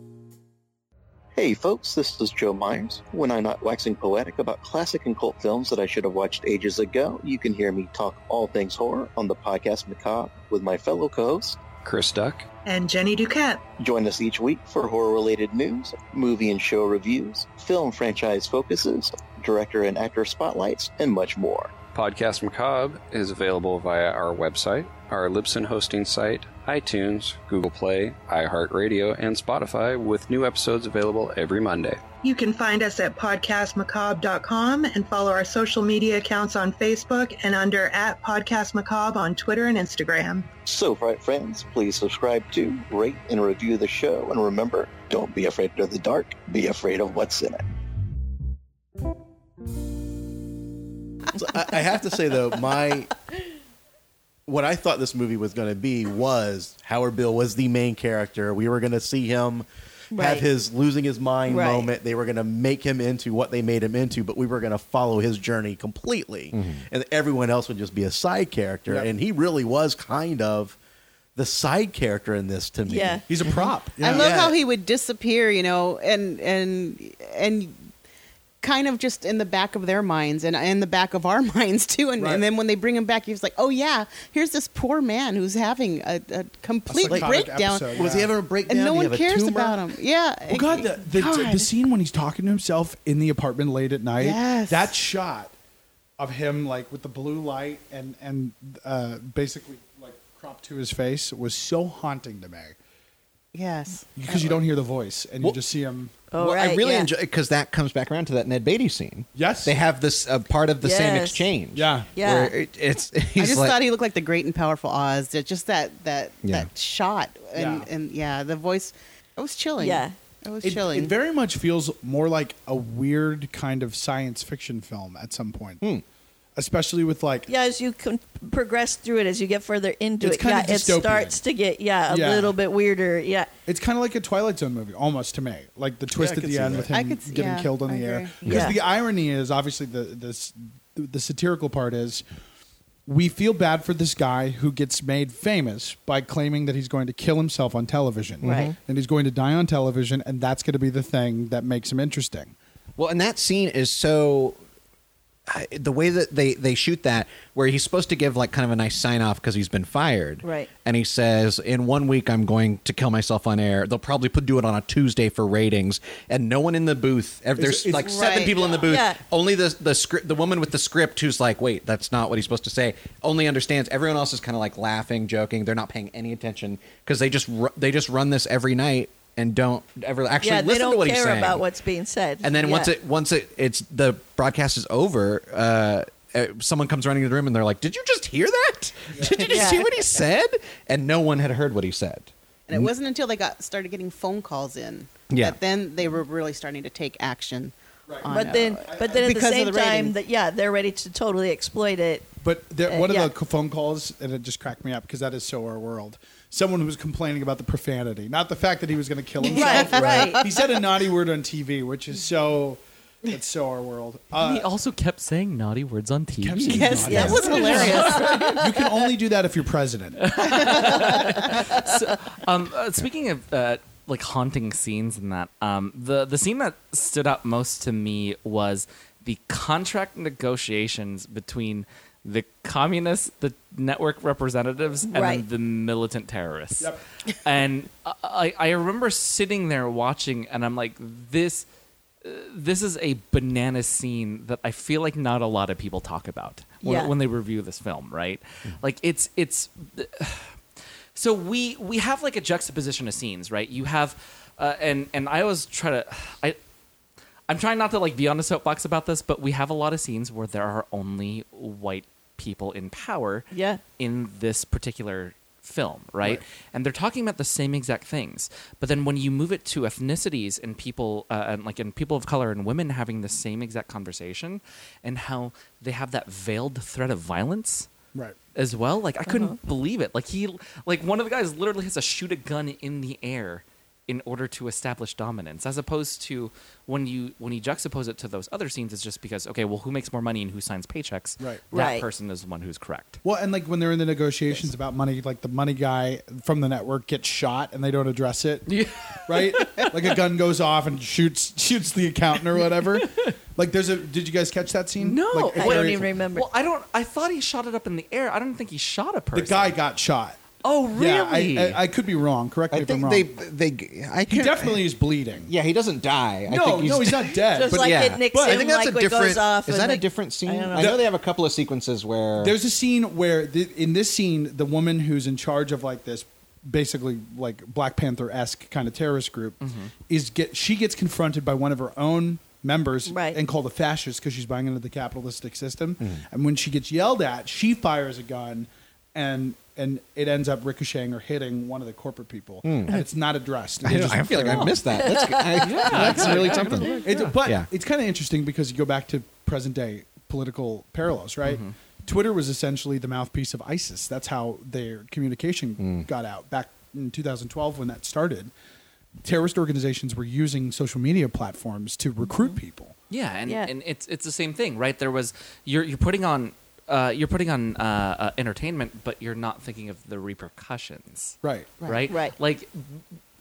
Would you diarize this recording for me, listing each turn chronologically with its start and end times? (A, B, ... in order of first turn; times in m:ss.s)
0:01.4-0:11.6 A
0:11.8-0:12.5 B
0:12.7-0:13.7 C
0:13.8-0:21.8 A
0:21.9-0:32.0 B
0:32.2-0:40.5 C
0:40.6-0:47.7 A
0:51.3-0:53.1 D
0:54.5-1:10.8 D
1:00.1-1:00.4 E
1:01.5-1:01.9 E
1:06.5-1:06.8 F
1:11.4-1:13.5 D
1:12.9-1:13.2 E
1:13.3-1:14.6 G
1:14.0-1:17.8 H
1:14.1-1:14.4 D
1:18.6-1:27.9 H
1:22.2-1:22.4 G
1:26.9-1:28.3 G
1:27.1-1:29.8 D
1:28.7-1:31.7 H
1:30.5-1:35.5 G
1:34.2-1:34.9 H
1:36.2-1:42.8 G
1:43.5-1:44.6 H
1:44.2-1:46.1 G
1:46.3-1:47.1 E
1:46.3-1:53.8 F
1:49.4-1:49.8 G
1:50.8-1:51.5 E
1:51.7-1:52.1 G
1:52.2-1:52.6 E
1:53.4-2:01.1 H
1:56.4-1:56.7 F
1:57.5-1:57.9 G
1:59.8-2:00.1 E
2:00.6-2:05.8 G
2:06.6-2:07.5 G
2:07.5-2:13.5 E
2:10.2-2:11.4 G
2:12.1-2:12.6 G
2:13.7-2:22.2 G
2:16.1-2:16.9 D
2:16.9-2:18.4 H
2:18.4-2:18.7 F
2:18.4-2:18.8 E
2:23.1-2:32.5 G
2:28.4-2:28.8 F
2:28.4-2:28.7 E
2:33.0-2:34.6 F
2:35.5-3:01.6 F
2:40.4-2:40.7 E
2:47.6-2:48.6 G
2:48.8-2:49.2 E
3:00.4-3:02.9 E
3:02.4-3:12.9 F
3:09.1-3:09.4 G
3:09.5-3:09.9 E
3:12.7-3:20.1 H
3:15.3-3:15.6 F
3:18.1-3:18.3 G
3:18.3-3:22.3 E
3:18.9-3:19.3 G
3:22.4-3:34.7 G
3:22.9-3:23.3 E
3:29.5-3:30.4 E
3:29.5-3:30.4 H
3:34.3-3:38.5 I
3:36.4-3:40.9 G
3:36.6-3:38.9 H
3:37.1-3:38.2 E
3:40.2-4:01.6 I
3:40.9-3:41.6 H
3:55.1-3:55.4 E
4:02.2-4:10.6 I
4:06.8-4:07.1 E
4:11.2-4:16.6 I
4:17.5-4:37.9 I
4:23.5-4:23.8 E
4:38.6-4:53.2 I
4:39.3-4:39.6 E
4:51.4-4:51.6 G
4:51.7-4:52.1 E
4:53.2-4:58.7 G
4:58.7-5:00.1 I
4:59.3-5:06.1 G
5:05.0-5:09.8 I
5:05.5-5:06.5 E
5:09.3-5:10.4 G
5:10.6-5:11.8 I
5:11.0-5:13.3 G
5:12.7-5:14.8 F
5:14.3-5:15.5 G
5:15.5-5:22.6 F
5:16.5-5:18.6 G
5:17.5-5:20.9 E
5:20.8-5:21.1 G
5:22.4-5:44.8 G
5:29.6-5:29.9 I
5:33.1-5:33.4 E
5:42.6-5:43.0 F
5:43.8-5:47.7 F
5:44.3-5:44.8 I
5:45.0-5:45.8 E
5:45.6-5:47.3 I
5:45.9-5:58.5 G
5:51.4-5:51.7 I
5:55.8-5:56.1 F
5:59.2-6:03.0 G
6:03.1-6:13.0 I
6:11.4-6:11.7 G
6:12.1-6:12.4 E